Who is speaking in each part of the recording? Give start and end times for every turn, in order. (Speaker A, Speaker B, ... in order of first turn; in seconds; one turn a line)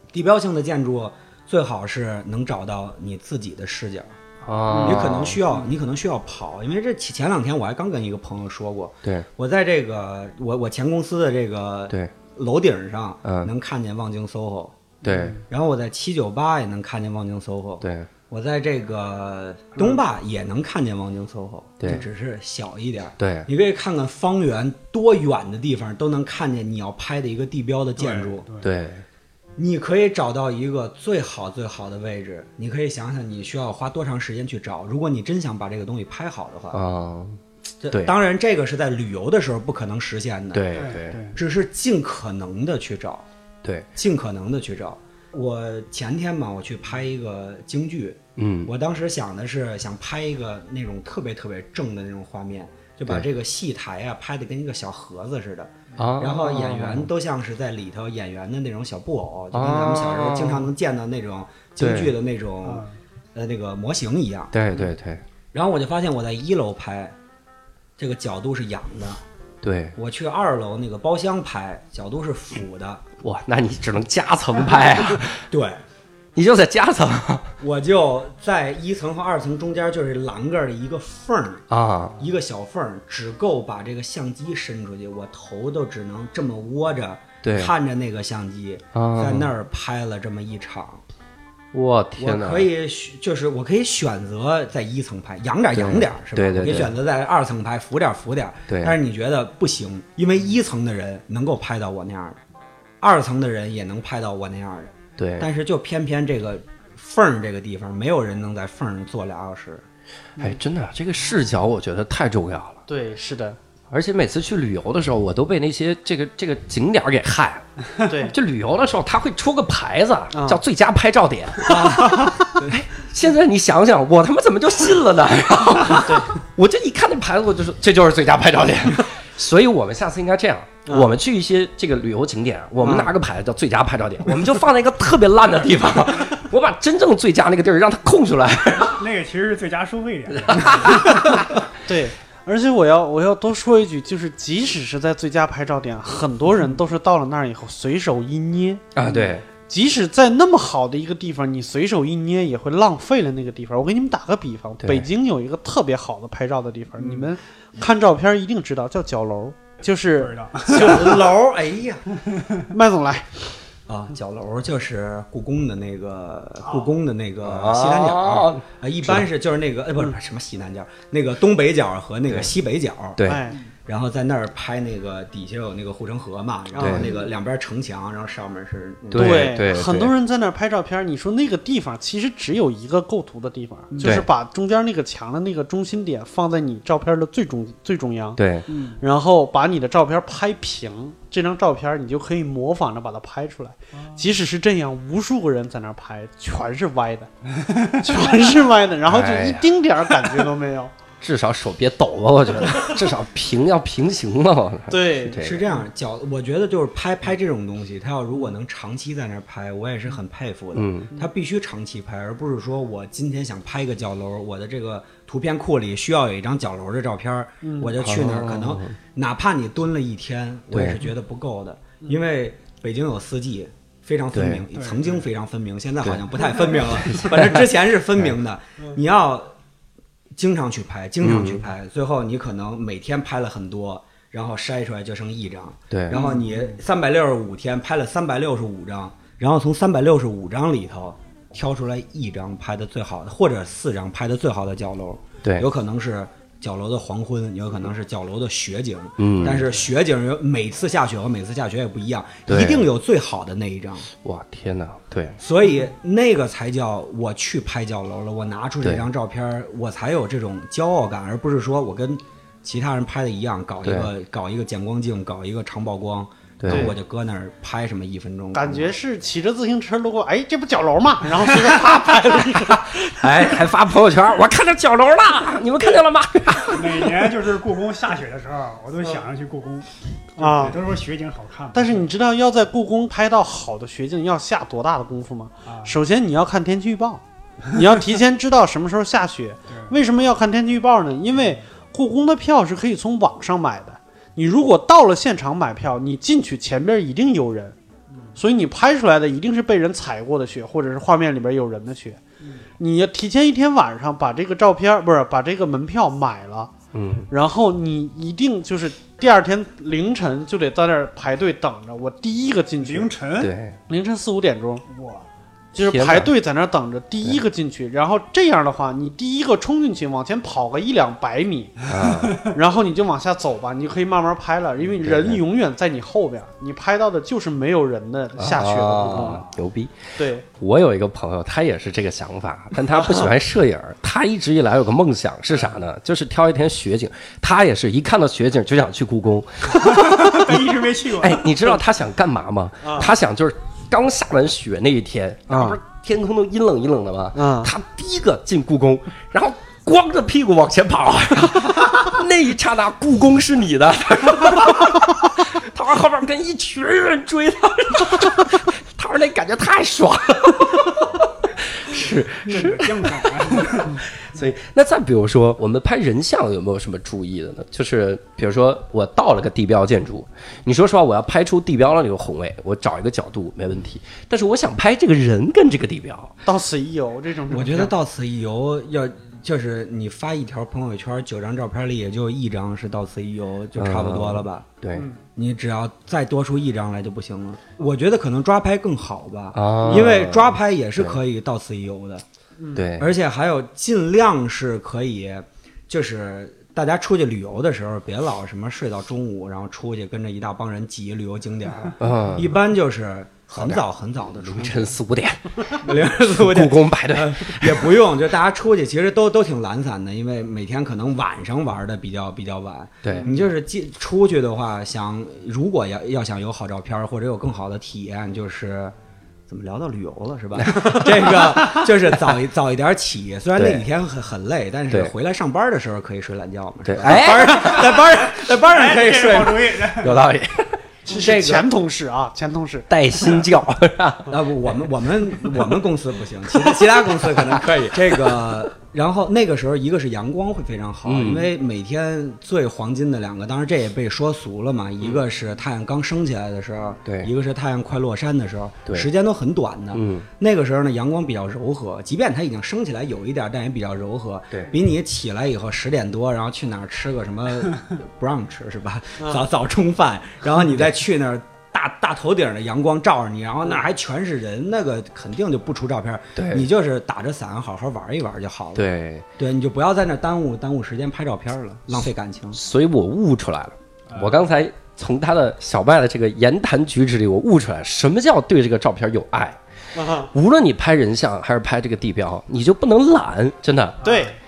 Speaker A: 0.1-4.2
Speaker B: 4.4-5.4
Speaker C: 4.7-5.6
Speaker A: 4.8-14.9
Speaker B: 13.2-13.5
Speaker D: 15.0-15.3
Speaker B: 15.0-15.4
Speaker A: 15.5-28.4
Speaker B: 17.8-18.1
Speaker B: 21.8-22.1
Speaker B: 23.2-23.5
Speaker D: 28.0-28.7
Speaker B: 28.6-29.0
Speaker A: 29.6-36.8
Speaker B: 36.7-37.4
Speaker A: 37.8-40.8
Speaker B: 40.5-41.2
Speaker D: 40.7-41.4
Speaker A: 41.3-43.2
Speaker A: 44.0-64.5
Speaker B: 48.4-48.7
Speaker B: 56.0-57.1
Speaker B: 59.5-60.7
Speaker B: 61.8-62.1
Speaker D: 62.6-63.0
Speaker B: 64.5-65.2
Speaker A: 65.5-67.2
Speaker A: 68.0-69.2
Speaker B: 69.6-69.9
Speaker A: 69.9-73.0
Speaker B: 73.2-75.5
Speaker A: 75.5-75.8
Speaker B: 76.3-77.5
Speaker A: 77.6-81.6
Speaker B: 81.7-82.2
Speaker A: 82.2-91.0
Speaker B: 87.4-87.7
Speaker B: 88.9-89.5
Speaker B: 91.7-92.7
Speaker A: 92.2-102.4
Speaker B: 95.7-96.9
Speaker B: 98.7-99.0
Speaker A: 103.0-109.8
Speaker B: 105.2-105.5
Speaker B: 110.4-112.8
Speaker C: 112.9-113.6
Speaker B: 113.9-139.0
Speaker C: 118.0-118.3
Speaker C: 120.3-120.6
Speaker A: 121.7-122.8
Speaker C: 126.0-126.3
Speaker C: 130.8-131.1
Speaker C: 132.8-133.1
Speaker D: 138.8-141.3
Speaker B: 140.5-141.4
Speaker C: 141.8-161.2
Speaker B: 148.9-149.4
Speaker B: 154.8-155.1
Speaker D: 157.0-157.3
Speaker D: 160.2-161.2
Speaker A: 160.6-162.0
Speaker D: 162.2-162.7
Speaker C: 162.7-163.5
Speaker A: 163.9-173.2
Speaker B: 167.4-169.3
Speaker B: 173.2-173.5
Speaker C: 173.2-173.6
Speaker A: 173.8-179.5
Speaker B: 176.8-177.1
Speaker B: 179.1-180.1
Speaker C: 179.1-188.4
Speaker D: 183.9-184.2
Speaker B: 188.4-188.7
Speaker D: 188.7-189.0
Speaker C: 189.0-197.3
Speaker D: 193.9-194.2
Speaker D: 197.6-198.2
Speaker C: 197.8-200.9
Speaker B: 199.1-199.7
Speaker B: 201.2-205.6
Speaker C: 204.9-205.4
Speaker A: 205.4-229.5
Speaker B: 210.7-211.1
Speaker C: 217.6-217.9
Speaker B: 218.0-218.9
Speaker B: 220.7-221.0
Speaker B: 224.3-224.7
Speaker D: 224.7-225.2
Speaker B: 226.8-227.7
Speaker A: 230.3-254.1
Speaker B: 231.2-231.6
Speaker B: 235.9-236.2
Speaker C: 236.2-236.4
Speaker D: 236.2-236.6
Speaker B: 249.2-249.7
Speaker B: 252.5-252.9
Speaker B: 254.2-255.4
Speaker A: 255.4-268.9
Speaker B: 263.8-264.1
Speaker B: 266.6-266.9
Speaker C: 266.7-266.9
Speaker C: 268.5-273.3
Speaker B: 271.6-277.4
Speaker D: 276.7-282.1
Speaker C: 280.4-280.8
Speaker C: 281.7-297.8
Speaker D: 285.6-285.9
Speaker D: 289.7-289.9
Speaker D: 291.4-291.6
Speaker D: 298.1-298.4
Speaker C: 298.4-302.2
Speaker C: 302.8-306.7
Speaker B: 306.9-307.3
Speaker C: 307.3-313.1
Speaker D: 312.8-313.5
Speaker B: 313.4-313.8
Speaker C: 313.9-314.8
Speaker D: 314.9-315.3
Speaker C: 315.7-321.9
Speaker B: 315.8-316.3
Speaker B: 321.9-322.4
Speaker D: 322.0-322.5
Speaker C: 322.4-329.5
Speaker B: 324.9-325.4
Speaker B: 328.4-376.4
Speaker C: 330.1-330.4
Speaker C: 333.0-333.2
Speaker D: 339.7-341.8
Speaker C: 342.8-343.1
Speaker C: 345.5-345.8
Speaker C: 347.3-347.7
Speaker D: 361.9-364.0
Speaker C: 376.4-377.9
Speaker A: 377.5-384.7
Speaker B: 383.8-385.1
Speaker C: 384.9-385.2
Speaker A: 385.4-392.2
Speaker B: 389.5-391.2
Speaker C: 392.6-392.8
Speaker B: 392.7-393.1
Speaker A: 393.0-404.9
Speaker B: 402.0-402.5
Speaker B: 403.6-403.8
Speaker B: 404.4-408.0
Speaker A: 405.8-418.9
Speaker B: 413.0-413.3
Speaker A: 419.5-430.0
Speaker B: 420.6-421.4
Speaker B: 423.6-423.8
Speaker B: 426.9-428.0
Speaker D: 427.4-430.2
Speaker B: 430.0-430.8
Speaker A: 431.1-431.7
Speaker C: 431.1-432.9
Speaker B: 432.9-434.3
Speaker A: 434.3-468.8
Speaker B: 435.4-435.8
Speaker B: 436.5-438.6
Speaker B: 441.0-441.5
Speaker B: 447.1-447.3
Speaker B: 449.9-450.3
Speaker B: 466.4-466.7
Speaker B: 468.7-469.2
Speaker A: 469.4-472.6
Speaker B: 471.9-479.6
Speaker D: 474.1-474.5
Speaker C: 479.9-480.3
Speaker B: 480.3-484.0
Speaker D: 484.0-484.3
Speaker C: 484.0-484.3